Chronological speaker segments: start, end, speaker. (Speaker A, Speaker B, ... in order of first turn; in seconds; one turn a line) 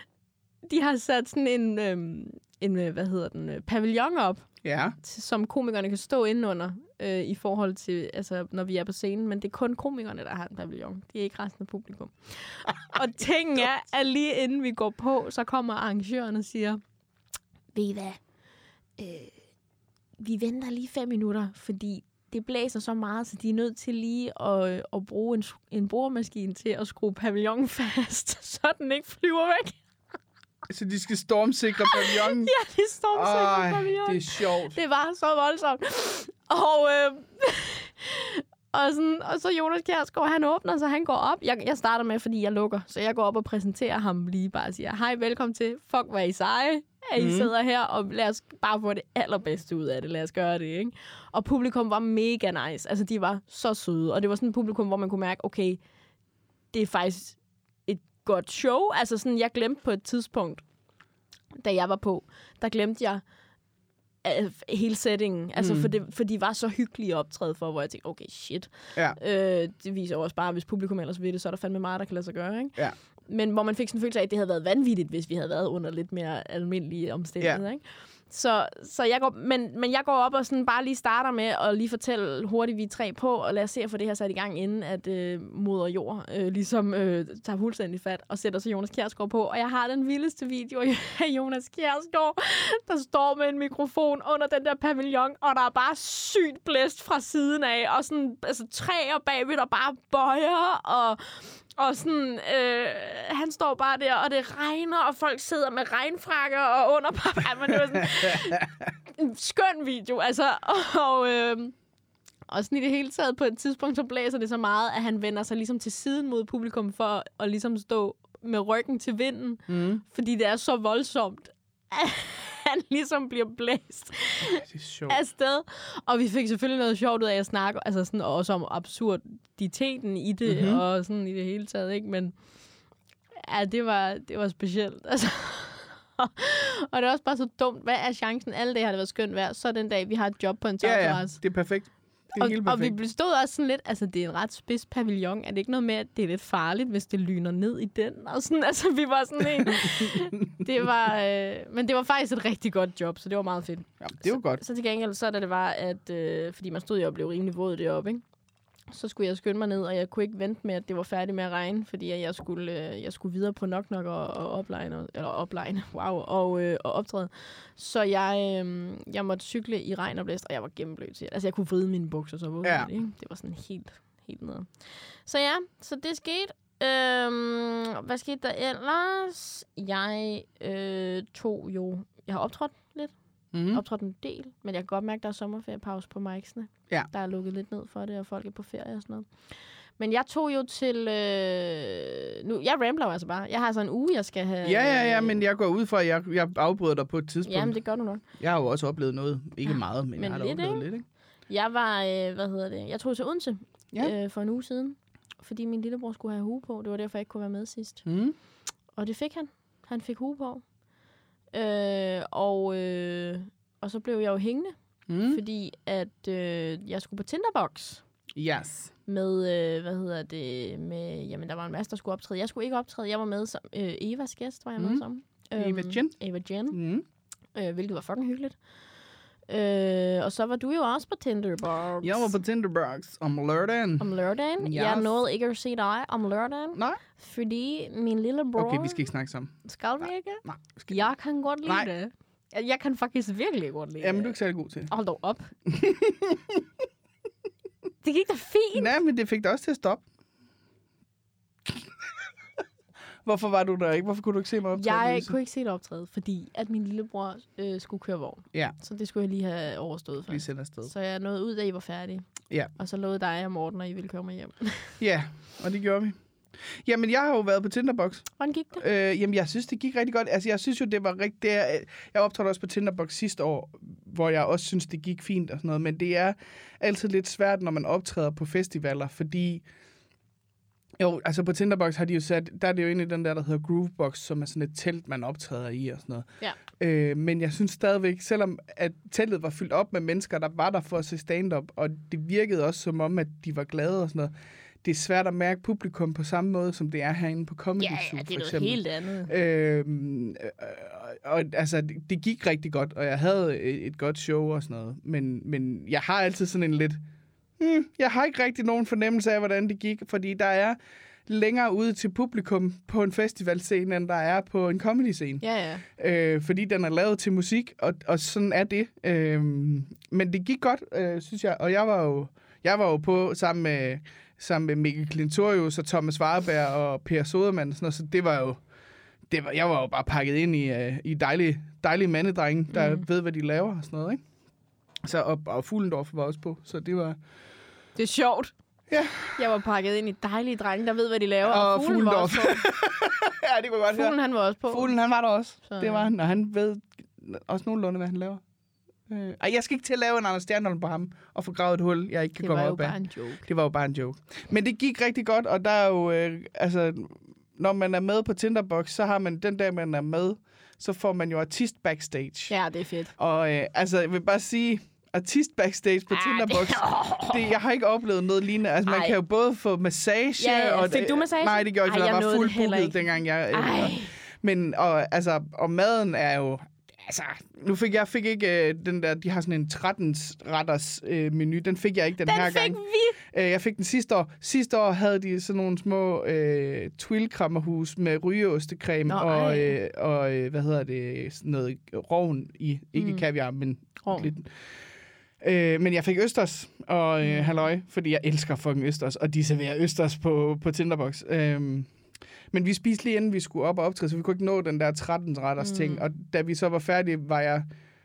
Speaker A: 0.7-16.8
Speaker B: 4.6-5.0
Speaker A: 17.7-18.2
Speaker A: 19.0-19.4
Speaker A: 20.2-29.8
Speaker B: 30.7-32.5
Speaker A: 31.9-55.8
Speaker B: 33.1-34.8
Speaker B: 47.2-47.5
Speaker A: 56.7-60.6
Speaker A: 61.5-63.2
Speaker A: 64.2-111.8
Speaker B: 65.6-65.9
Speaker B: 108.2-108.8
Speaker A: 112.5-132.4
Speaker B: 119.7-120.0
Speaker B: 124.5-125.2
Speaker B: 130.4-130.8
Speaker A: 133.4-141.4
Speaker B: 140.8-142.9
Speaker A: 142.3-158.2
Speaker B: 149.7-150.1
Speaker B: 154.0-154.6
Speaker A: 158.9-195.4
Speaker B: 172.6-172.9
Speaker B: 183.5-183.8
Speaker B: 194.6-201.1
Speaker A: 197.4-198.2
Speaker A: 199.7-208.1
Speaker B: 208.0-208.3
Speaker A: 208.9-210.7
Speaker A: 211.5-218.1
Speaker B: 215.1-215.4
Speaker B: 218.3-218.9
Speaker A: 219.1-226.8
Speaker B: 224.8-225.0
Speaker B: 225.6-227.0
Speaker A: 227.5-228.6
Speaker A: 229.5-232.4
Speaker B: 232.0-235.2
Speaker A: 234.0-239.0
Speaker B: 236.7-237.0
Speaker B: 238.6-241.0
Speaker A: 239.6-245.5
Speaker B: 244.0-244.9
Speaker B: 245.7-246.6
Speaker A: 248.0-248.9
Speaker B: 248.7-250.1
Speaker B: 251.7-251.9
Speaker B: 253.2-255.3
Speaker A: 254.7-264.9
Speaker B: 260.3-260.9
Speaker B: 265.0-279.6
Speaker A: 268.4-268.8
Speaker B: 281.0-307.0
Speaker A: 297.8-299.3
Speaker B: 307.6-328.6
Speaker A: 315.4-315.8
Speaker B: 329.3-334.2
Speaker A: 332.7-333.0
Speaker B: 335.0-337.2
Speaker A: 337.9-338.5
Speaker B: 338.9-339.4
Speaker A: 339.3-342.7
Speaker B: 341.4-344.1
Speaker A: 343.9-344.9
Speaker B: 344.7-348.4
Speaker A: 345.6-346.1
Speaker B: 349.1-362.6
Speaker A: 352.4-353.4
Speaker A: 362.5-363.1
Speaker B: 363.1-394.8
Speaker A: 366.1-367.5
Speaker A: 368.9-369.2
Speaker A: 370.4-373.0
Speaker A: 373.5-374.1
Speaker A: 382.2-383.2
Speaker A: 389.1-389.7
Speaker A: 392.9-393.2
Speaker A: 394.0-394.3
Speaker B: 395.4-401.9
Speaker A: 397.2-397.6
Speaker B: 402.5-407.7
Speaker A: 405.6-406.1